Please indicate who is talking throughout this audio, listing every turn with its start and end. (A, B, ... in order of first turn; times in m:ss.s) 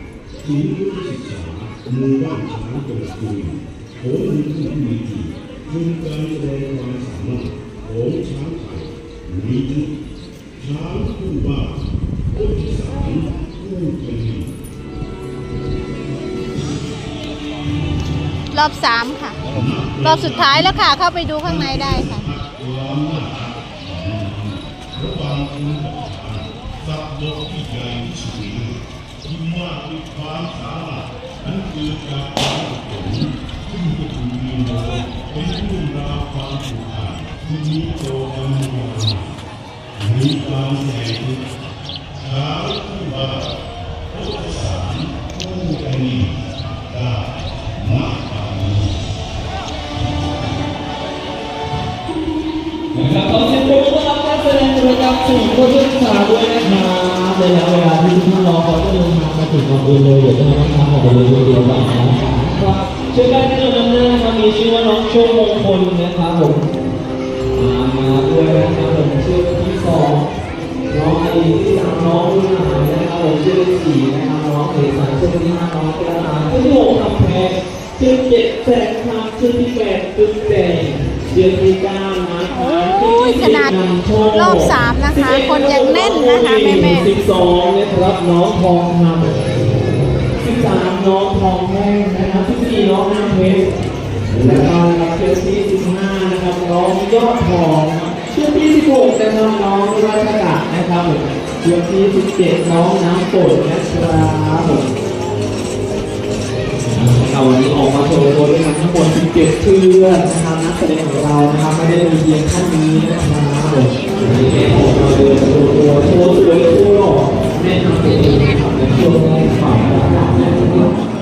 0:00.4-0:09.9 A
0:10.6-0:14.5 A
0:18.5-0:19.4 B
0:19.4-0:20.9 A
0:20.0-0:22.3 B
0:21.4-0:39.4 A
0:40.0-0:41.5 A
0:42.2-0:43.6 A
0:44.1-0:49.0 A
0:52.9-1:06.7 C
1:07.5-1:10.3 C
1:10.9-1:29.4 C
1:22.8-1:23.8 B
1:24.3-1:27.1 B
1:30.4-1:33.7 C
1:34.3-1:34.7 A
1:34.4-1:44.9 C
1:46.9-2:00.9 C